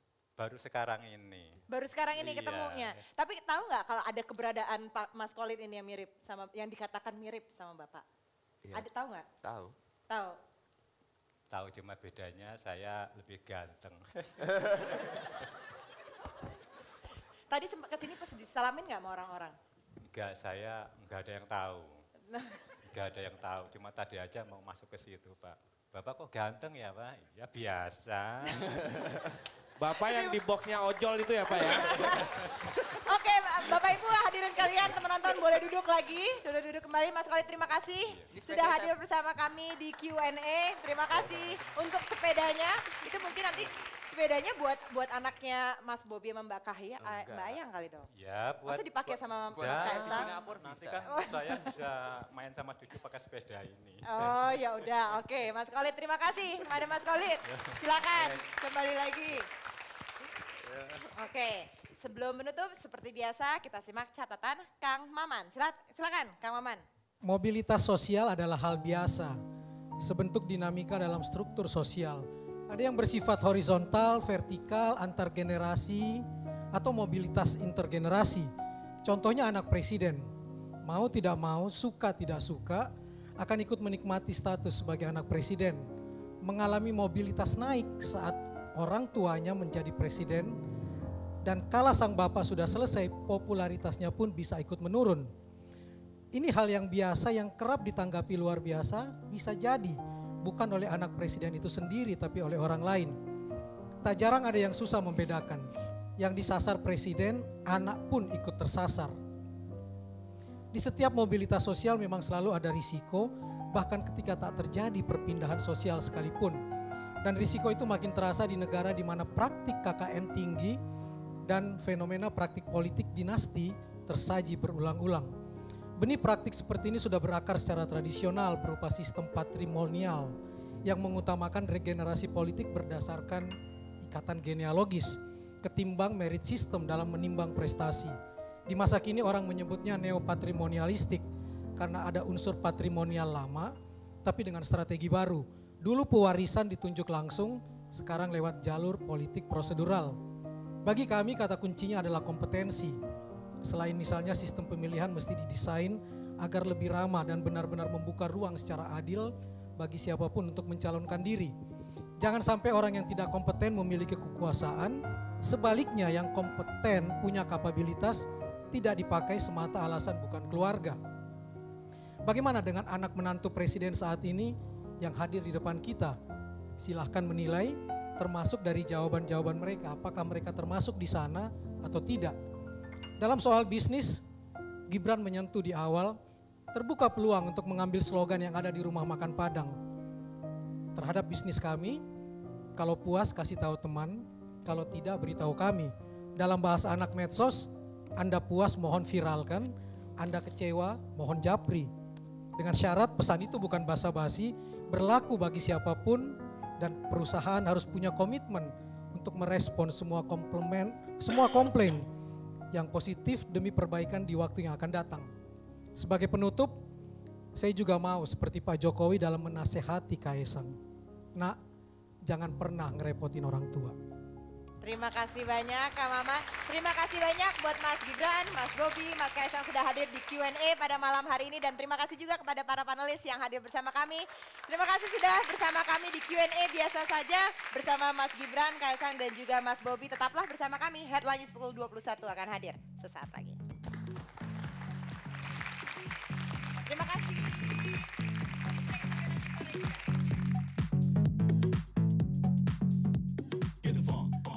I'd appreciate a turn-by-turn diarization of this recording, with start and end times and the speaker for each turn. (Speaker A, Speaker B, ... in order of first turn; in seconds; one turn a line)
Speaker A: 0.4-1.6
Speaker B: 1.7-8.0
Speaker A: 2.1-3.0
Speaker B: 8.7-9.2
Speaker C: 9.4-9.8
Speaker B: 10.1-10.4
Speaker A: 11.5-15.0
Speaker B: 17.5-19.6
Speaker A: 20.1-22.0
Speaker B: 22.3-22.6
Speaker A: 22.9-28.9
Speaker D: 29.8-32.0
Speaker B: 30.0-30.4
Speaker B: 31.5-32.4
Speaker B: 32.9-48.1
Speaker C: 38.3-38.9
Speaker A: 41.1-41.8
Speaker C: 47.0-47.6
Speaker A: 48.1-54.6
Speaker B: 48.7-50.4
Speaker C: 49.5-51.0
Speaker B: 51.1-51.7
Speaker B: 54.1-59.5
Speaker A: 57.5-58.4
Speaker A: 60.7-61.0
Speaker B: 61.1-66.8
Speaker E: 67.2-69.4
Speaker E: 70.0-78.5
Speaker E: 79.0-80.3
Speaker E: 80.8-85.9
Speaker E: 86.4-90.6
Speaker E: 91.4-95.3
Speaker E: 96.3-103.2
Speaker E: 104.0-109.2
Speaker E: 110.7-116.6
Speaker E: 117.2-120.8
Speaker E: 121.5-125.3
Speaker E: 126.0-138.2
Speaker E: 138.7-141.2
Speaker E: 141.8-143.7
Speaker E: 144.2-150.2
Speaker E: 150.8-153.0
Speaker E: 153.6-161.5
Speaker E: 162.2-171.0
Speaker E: 172.3-176.2
Speaker E: 176.8-182.4
Speaker E: 183.2-184.2
Speaker E: 184.9-186.2
Speaker E: 186.7-189.8
Speaker E: 190.9-192.0
Speaker E: 192.8-201.9
Speaker E: 202.6-212.1
Speaker E: 212.7-215.3
Speaker E: 216.0-216.8
Speaker E: 217.6-220.8
Speaker E: 222.2-223.9
Speaker B: 224.8-243.6
Speaker B: 246.9-247.6